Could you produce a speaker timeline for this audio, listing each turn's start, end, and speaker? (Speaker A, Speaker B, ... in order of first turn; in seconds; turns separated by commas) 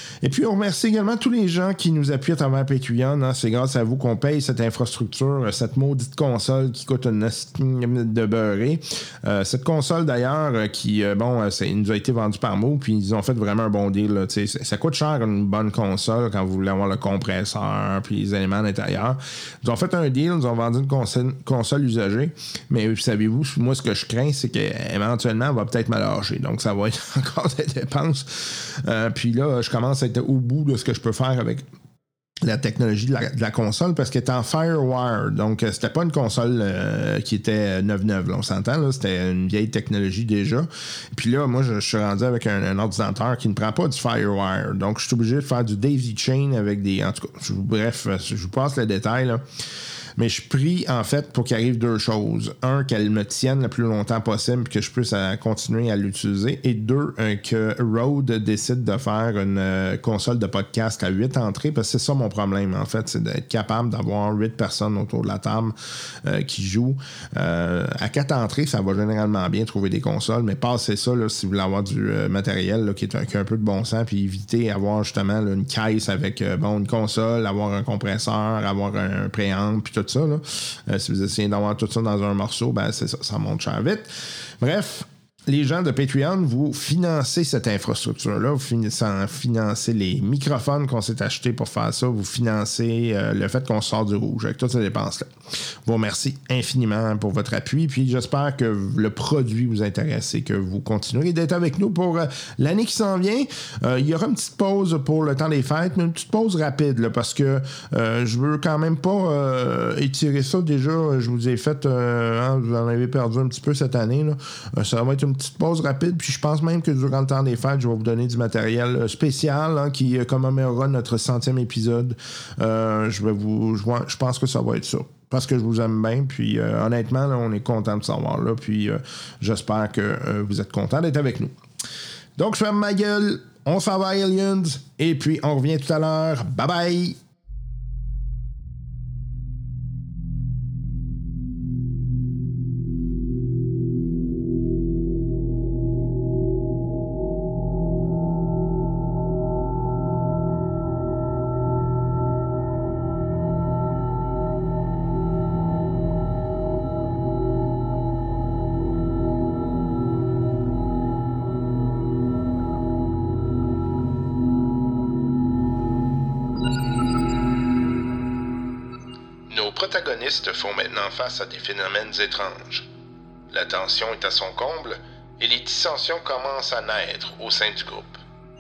Speaker A: 0.2-31.6, Speaker A: 32.4-49.5, Speaker A: 50.2-131.5, Speaker A: 132.4-137.2, Speaker A: 169.5-172.9, Speaker A: 173.5-178.2